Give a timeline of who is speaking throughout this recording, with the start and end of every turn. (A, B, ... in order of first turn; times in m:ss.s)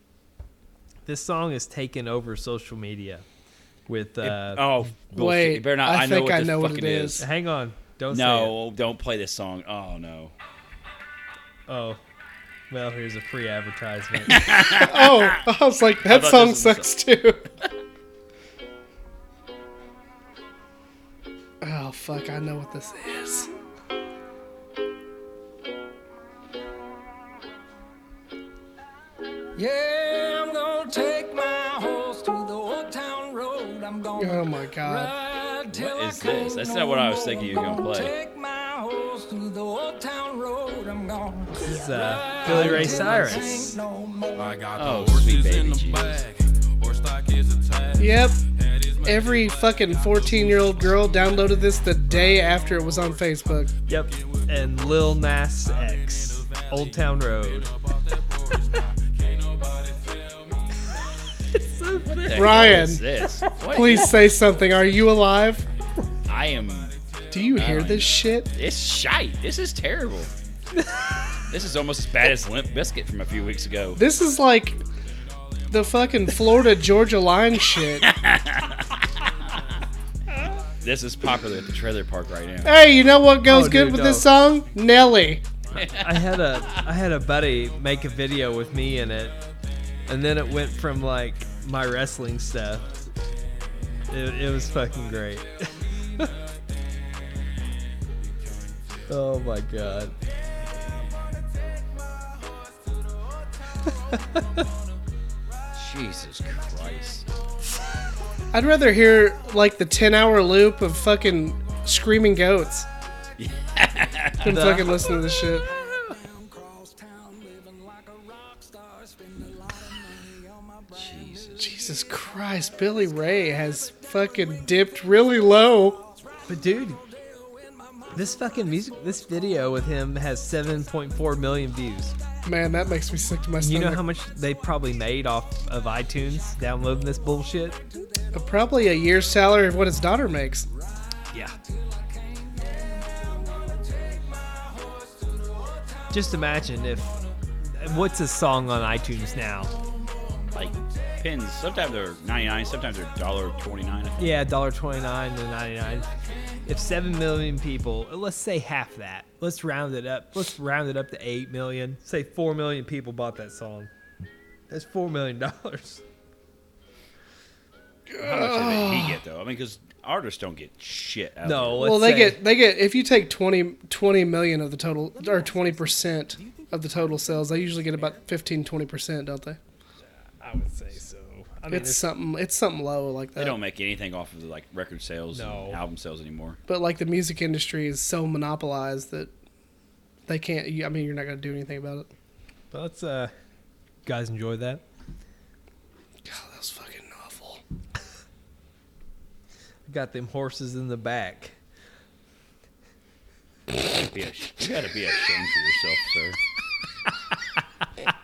0:01.0-0:03.2 A
0:03.9-0:04.7 A
0:04.2-0:07.2 B
0:05.1-0:07.2 C
0:07.2-0:08.5 A
0:08.1-0:10.3 B
0:11.7-0:12.0 A
0:12.7-0:14.4 A
0:14.2-0:15.4 B
0:14.7-0:17.5 C
0:16.1-0:16.9 B
0:21.6-0:23.5 C
0:29.6-0:44.6 D
0:34.2-0:35.1 C
0:35.7-0:38.1 B
0:41.5-0:43.8 A
0:42.4-0:43.4 C
0:44.3-1:02.3 E
0:44.7-0:46.2 B
0:48.0-0:48.4 C
0:49.0-0:53.7 C
0:53.9-0:57.7 A
1:01.5-1:03.6 A
1:02.0-1:04.2 B
1:02.3-1:05.6 C
1:06.2-1:06.9 B
1:06.3-1:08.6 E
1:07.3-1:08.5 C
1:07.5-1:10.3 B
1:10.7-1:11.4 A
1:11.5-1:14.0 B
1:14.0-1:14.8 C
1:15.3-1:16.4 E
1:15.7-1:18.1 C
1:18.0-1:19.7 B
1:18.7-1:20.8 E
1:20.8-1:22.7 B
1:22.6-1:25.4 C
1:23.4-1:24.3 A
1:25.7-1:29.4 A
1:25.7-1:26.8 B
1:27.5-1:29.5 E
1:30.1-1:32.9 A
1:34.1-1:36.3 A
1:34.4-1:37.5 E
1:38.1-1:39.0 E
1:39.1-1:40.1 A
1:40.8-1:41.3 E
1:42.2-1:44.7 E
1:43.9-1:44.6 A
1:45.7-1:47.3 B
1:48.5-1:52.9 C
1:53.4-1:54.6 B
1:54.4-1:55.7 C
1:54.4-1:55.0 A
1:54.9-2:12.3 D
2:00.9-2:01.7 B
2:01.6-2:06.0 C
2:06.5-2:07.0 A
2:08.1-2:12.2 A
2:12.4-2:14.0 C
2:13.6-2:17.8 A
2:14.5-2:15.0 D
2:15.8-2:19.8 D
2:18.3-2:20.7 C
2:20.7-2:31.2 D
2:21.3-2:21.6 A
2:26.1-2:29.7 A
2:30.5-2:34.4 B
2:32.4-2:33.8 D
2:34.2-2:36.1 A
2:35.8-2:37.4 D
2:36.6-2:43.9 A
2:44.7-2:46.0 A
2:48.1-2:49.2 C
2:48.2-2:51.9 B
2:51.4-2:52.4 A
2:51.8-2:59.6 C
2:55.1-2:58.2 D
3:00.4-3:02.1 A
3:01.7-3:03.6 C
3:03.4-3:06.6 B
3:05.3-3:05.8 A
3:06.7-3:09.3 C
3:10.3-3:12.1 C
3:12.7-3:13.3 A
3:14.0-3:14.8 A
3:16.2-3:17.6 C
3:19.9-3:21.6 A
3:23.8-3:26.4 B